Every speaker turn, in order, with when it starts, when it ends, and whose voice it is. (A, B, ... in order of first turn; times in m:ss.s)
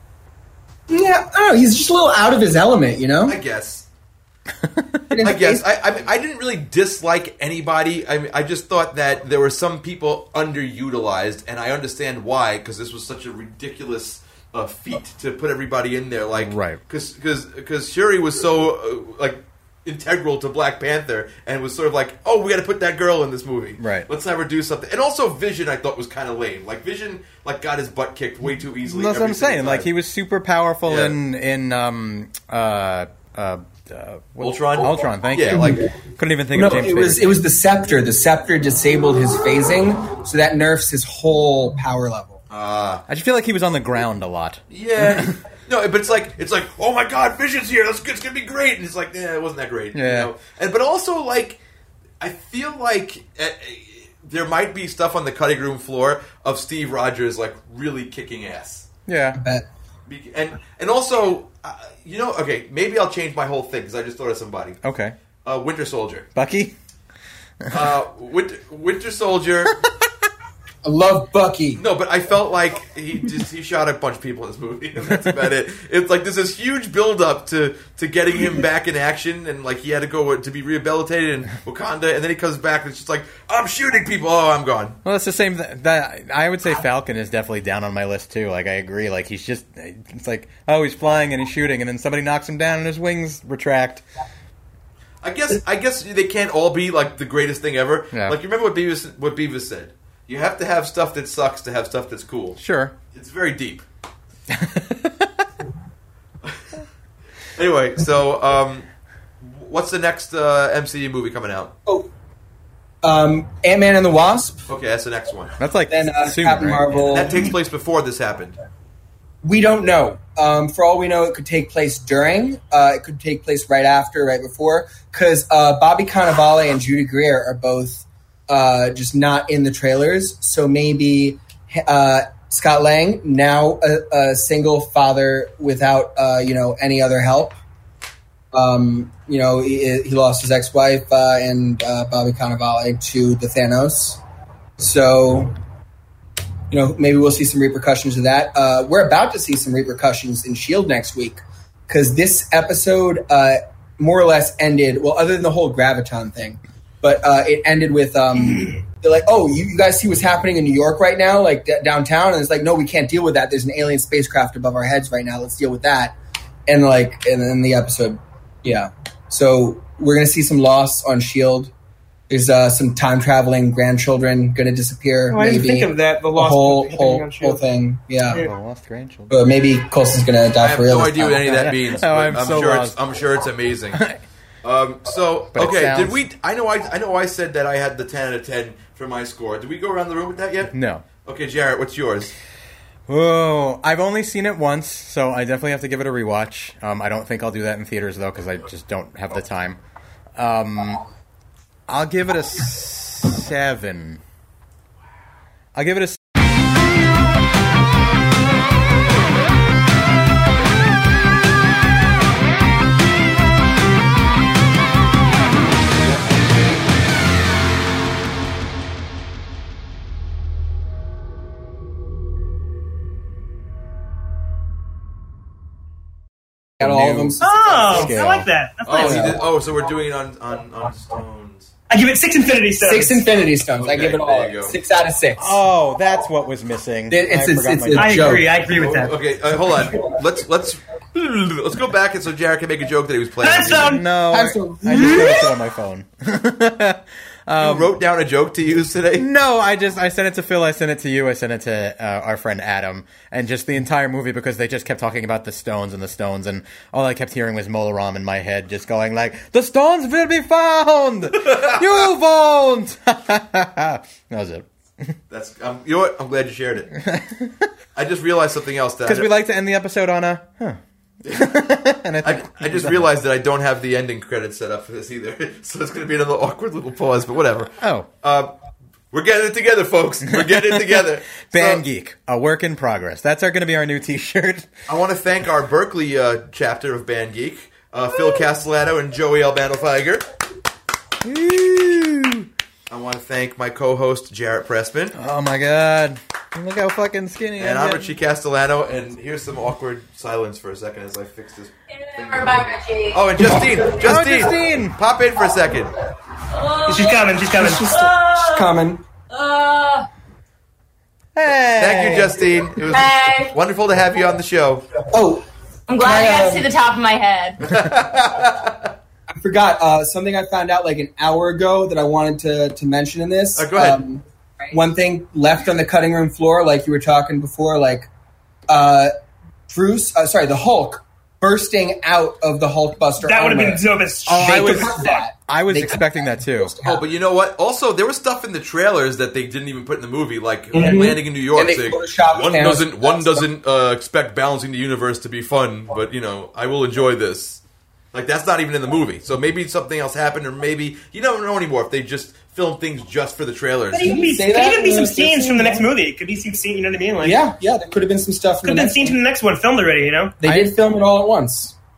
0:00.9-0:03.4 A
0:03.3-0:03.9 B
0:05.1-0:05.6 A
0:05.2-0:29.9 B
0:16.4-0:16.8 C
0:23.8-0:24.1 C
0:28.9-0:37.4 C
0:30.9-0:31.2 B
0:34.4-0:35.8 B
0:35.5-0:35.8 A
0:36.5-0:42.4 A
0:42.5-0:43.0 B
0:43.1-0:45.4 C
0:44.7-0:51.6 B
0:49.9-0:50.3 C
0:52.2-0:58.9 B
0:59.1-0:59.4 C
0:59.4-0:59.7 A
1:00.1-1:04.8 B
1:04.8-1:05.2 C
1:05.4-1:06.3 B
1:06.4-1:06.7 C
1:07.7-1:09.8 B
1:10.8-1:11.8 A
1:11.8-1:25.0 B
1:25.0-1:34.0 C
1:35.2-1:42.6 B
1:42.6-1:42.9 C
1:43.1-1:43.8 B
1:44.5-1:45.5 C
1:47.6-1:48.9 B
1:49.4-1:51.7 B
1:53.0-1:54.7 A
1:54.7-1:55.6 B
1:55.6-1:57.3 C
1:55.9-1:57.4 A
1:57.1-1:58.6 B
1:59.4-2:17.6 A
2:18.5-2:24.2 A
2:24.8-2:25.6 A
2:26.7-2:46.2 A
2:46.7-2:51.7 A
2:52.3-2:58.4 A
2:55.3-2:57.6 D
2:58.3-2:59.4 C
2:59.3-3:01.6 A
3:00.6-3:04.0 B
3:01.4-3:03.0 C
3:03.9-3:04.2 C
3:04.6-3:10.7 B
3:05.6-3:06.2 C
3:10.7-3:11.0 C
3:11.2-3:12.3 B
3:13.1-3:19.8 C
3:20.4-3:21.0 C
3:21.9-3:24.2 C
3:25.8-3:26.2 C
3:46.8-3:48.2 A
3:46.8-3:47.4 C
3:47.4-3:49.4 D
3:47.9-3:48.5 C
3:48.8-3:51.7 B
3:49.0-3:49.4 A
3:51.9-3:53.2 D
3:52.8-3:55.6 A
3:53.8-3:54.8 B
3:55.4-3:58.4 C
3:57.1-3:58.5 A
3:57.9-3:59.1 D
3:58.6-4:04.0 B
4:03.4-4:04.0 D
4:03.7-4:07.9 C
4:04.3-4:05.5 A
4:07.6-4:09.3 B
4:09.2-4:25.2 C
4:21.5-4:21.7 B
4:25.3-4:26.9 B
4:27.0-4:27.7 C
4:28.0-4:29.3 B
4:29.1-4:33.1 C
4:31.2-4:31.6 B
4:32.2-4:38.5 B
4:37.8-4:38.1 C
4:39.1-4:41.8 B
4:40.3-4:44.7 C
4:44.9-4:50.2 B
4:51.2-4:52.5 C
4:52.9-4:55.2 B
4:55.2-4:58.1 C
4:57.6-5:05.9 B
5:01.9-5:03.3 E
5:03.4-5:03.8 A
5:03.9-5:05.0 C
5:06.5-5:08.7 E
5:06.9-5:07.9 D
5:07.6-5:09.0 A
5:09.3-5:10.1 E
5:11.4-5:12.4 C
5:11.8-5:14.9 B
5:12.8-5:13.6 E
5:15.1-5:15.5 A
5:15.9-5:17.6 E
5:16.0-5:16.7 A
5:17.6-5:18.9 B
5:19.3-5:28.1 A
5:23.6-5:24.0 B
5:28.7-5:29.1 A
5:29.7-5:37.0 A
5:33.2-5:35.2 D
5:34.3-5:36.7 C
5:36.8-5:47.6 B
5:40.7-5:43.5 A
5:48.1-5:54.2 B
5:53.9-5:55.9 A
5:53.9-5:57.4 D
5:57.2-5:59.2 A
5:58.6-6:00.4 D
6:00.4-6:01.8 A
6:00.4-6:00.7 C